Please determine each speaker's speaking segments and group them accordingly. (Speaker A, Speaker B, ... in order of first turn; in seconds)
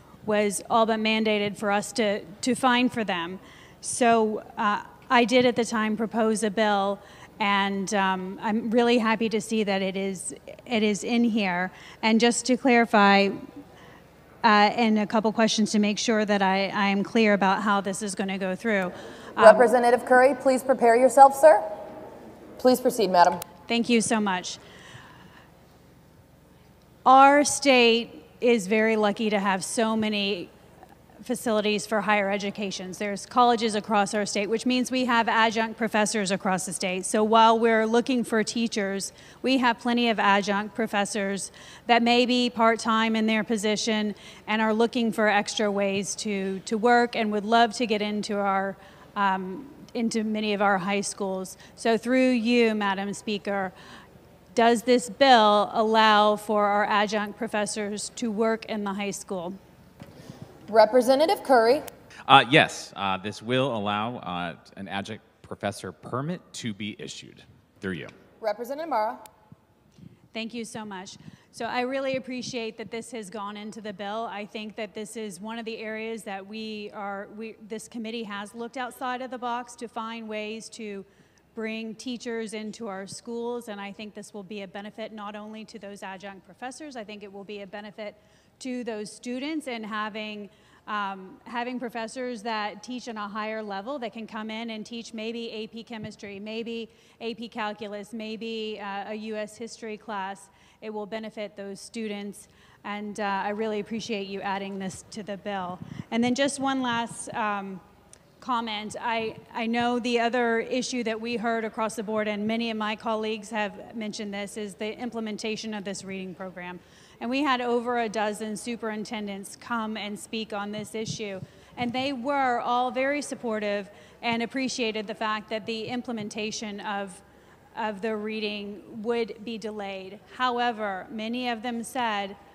Speaker A: 0.2-13.4, 14.4-19.6, 23.7-24.6, 27.0-30.5, 31.2-53.7, 54.5-59.5, 70.3-107.8, 108.4-127.2, 127.7-132.4
Speaker B: 19.4-21.6, 22.6-23.4, 60.7-61.8, 68.4-69.2
Speaker C: 62.3-68.1